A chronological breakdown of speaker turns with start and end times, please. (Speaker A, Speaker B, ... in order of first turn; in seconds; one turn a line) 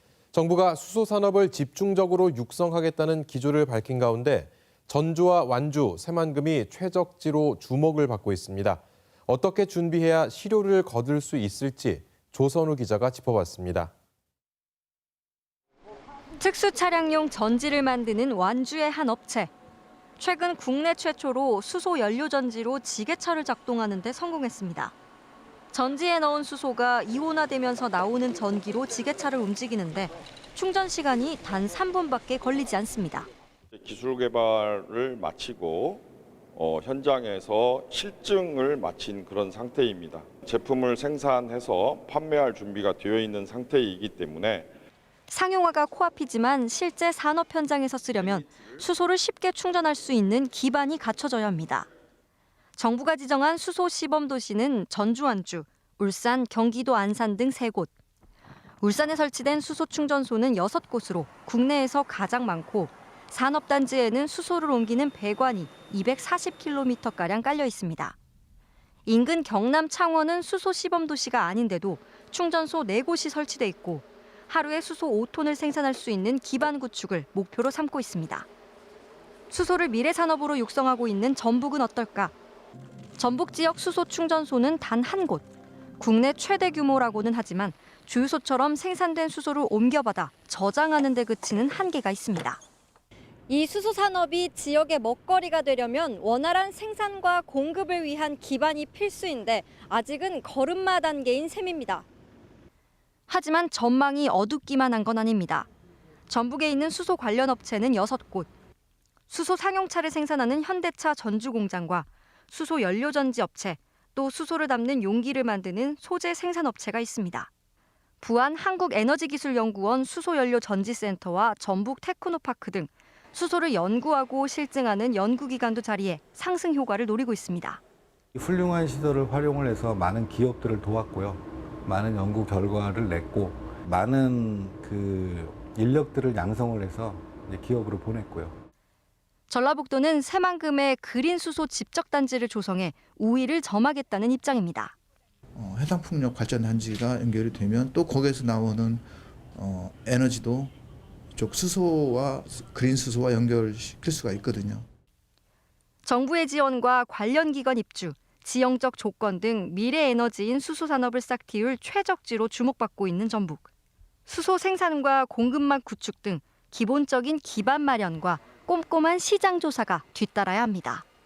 Speaker A: 0.3-13.9
Speaker B: 16.4-19.5
Speaker B: 20.2-24.9
Speaker B: 25.7-33.3
Speaker C: 34.0-35.8
Speaker C: 37.9-39.8
Speaker C: 40.5-44.5
Speaker B: 45.3-51.9
Speaker B: 52.8-57.9
Speaker B: 58.8-68.2
Speaker B: 69.0-78.5
Speaker B: 79.5-82.3
Speaker B: 83.2-85.5
Speaker B: 86.0-92.6
Speaker B: 93.5-102.1
Speaker B: 103.3-105.7
Speaker B: 106.3-108.5
Speaker B: 109.3-117.5
Speaker B: 118.2-127.8
Speaker D: 128.3-138.6
Speaker B: 139.5-144.9
Speaker E: 145.5-150.7
Speaker E: 151.3-154.8
Speaker B: 156.0-163.7
Speaker B: 164.2-171.0